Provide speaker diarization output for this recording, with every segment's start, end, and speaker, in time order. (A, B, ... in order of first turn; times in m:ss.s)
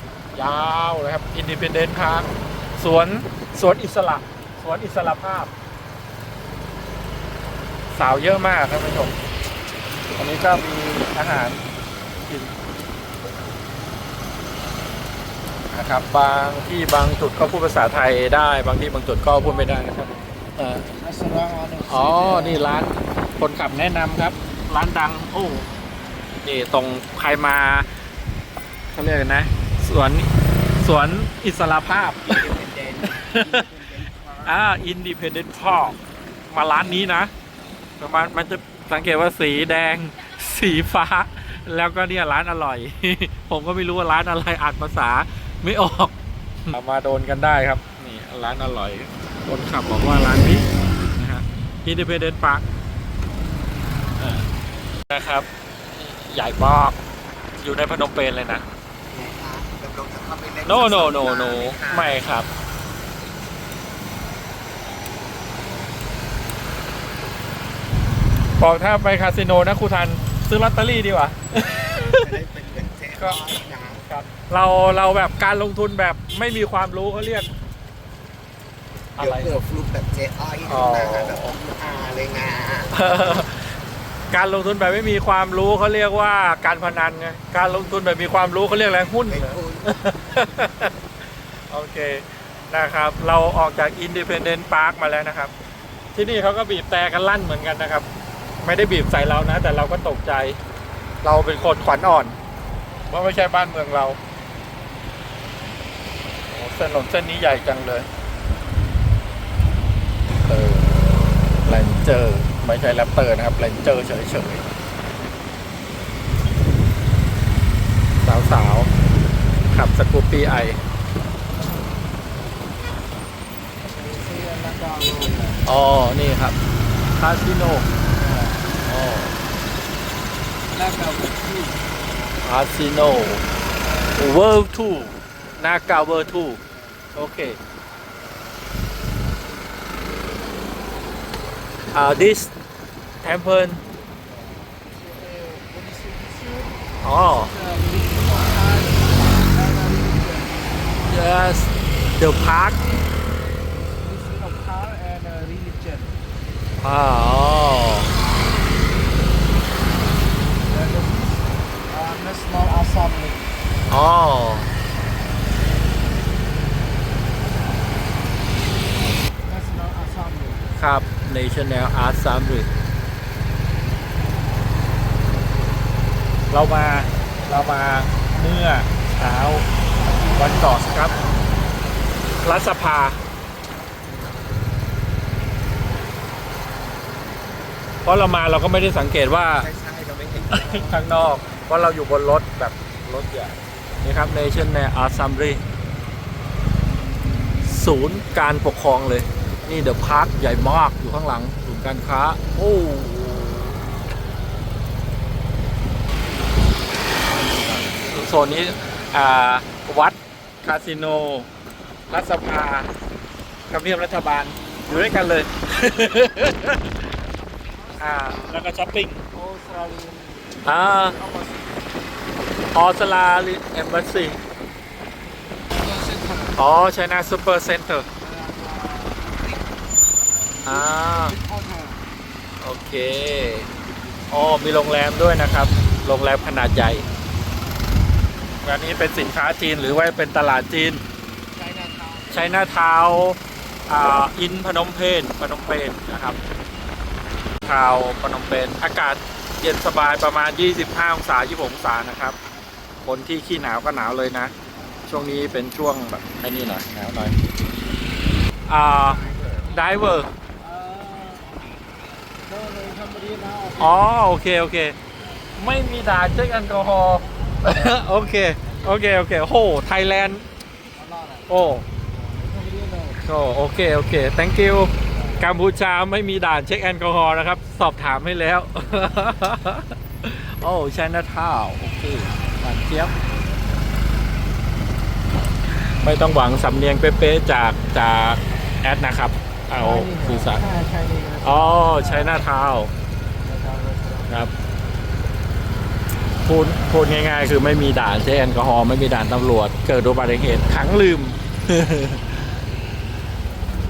0:00.4-0:05.5 A
0:07.9-0:09.2 A
0:10.1-0:11.6 A
0:12.2-0:12.5 A
0:15.7-0:20.9 A
0:19.3-0:20.4 B
0:21.0-0:22.7 B
0:21.9-0:25.7 A
0:26.4-0:27.9 A
0:28.9-0:32.5 A
0:32.3-0:34.6 C
0:33.0-0:33.6 A
0:34.4-0:36.0 A
0:36.5-0:37.3 A
0:38.0-0:46.1 A
0:46.7-0:52.6 A
0:54.2-0:54.5 A
0:55.1-0:55.4 A
0:56.0-0:57.0 A
0:57.6-0:58.6 A
0:59.1-1:02.3 C
1:00.6-1:02.5 A
1:08.6-1:12.4 A
1:12.1-1:14.1 C
1:13.2-1:13.4 A
1:14.0-1:17.5 A
1:19.2-1:19.6 A
1:19.2-1:23.0 C
1:20.6-1:21.5 A
1:22.9-1:23.8 A
1:24.3-1:30.9 A
1:29.3-1:30.1 C
1:31.7-1:35.5 A
1:36.1-1:38.1 A
1:38.6-1:40.6 A
1:41.2-1:42.4 A
1:43.1-1:44.2 A
1:46.5-1:48.1 A
1:50.4-1:51.1 A
1:51.6-1:54.6 A
1:58.2-1:58.9 A
1:59.7-2:00.8 A
2:03.8-2:05.6 B
2:05.6-2:06.6 A
2:07.2-2:07.9 A
2:08.1-2:08.7 B
2:08.8-2:09.4 A
2:10.7-2:11.8 B
2:12.4-2:13.4 A
2:14.1-2:16.6 A
2:16.6-2:16.9 B
2:17.1-2:17.6 A
2:21.9-2:22.5 A
2:23.2-2:23.8 A
2:24.2-2:31.3 B
2:27.0-2:27.5 A
2:31.0-2:32.8 A
2:33.9-2:36.2 B
2:36.8-2:38.2 A
2:40.6-2:43.5 B
2:43.9-2:44.7 A
2:49.4-2:50.8 B
2:50.8-2:52.7 A
2:56.5-3:01.3 A
3:01.1-3:01.5 C
3:02.4-3:03.2 A
3:08.0-3:09.7 A
3:09.5-3:11.1 C
3:10.5-3:15.6 A
3:17.6-3:23.8 A
3:27.6-3:28.2 C
3:28.0-3:31.5 A
3:32.1-3:32.9 A
3:33.7-3:37.1 A
3:37.7-3:38.6 C
3:38.0-3:39.2 A
3:39.3-3:41.8 B
3:40.6-3:41.2 A
3:42.7-3:44.4 A
3:45.8-3:46.6 B
3:45.8-3:46.5 C
3:46.6-3:48.0 A
3:48.2-3:49.6 B
3:50.2-3:52.0 B
3:50.6-3:51.4 A
3:52.6-3:53.7 A
3:54.3-3:57.0 A
3:58.6-4:01.0 A
4:01.6-4:02.7 C
4:02.3-4:06.4 A
4:07.6-4:12.4 A
4:13.0-4:14.5 A
4:15.1-4:17.4 A
4:18.7-4:20.3 A
4:19.0-4:19.8 C
4:20.6-4:21.8 B
4:22.4-4:24.1 B
4:23.8-4:25.0 A
4:25.6-4:30.4 A
4:28.5-4:29.0 B
4:30.9-4:33.2 B
4:31.5-4:31.8 A
4:33.2-4:43.1 A
4:35.1-4:35.5 B
4:45.7-4:50.6 A
4:49.8-4:52.4 B
4:51.4-4:52.9 A
4:53.4-4:54.5 B
4:56.4-5:02.4 A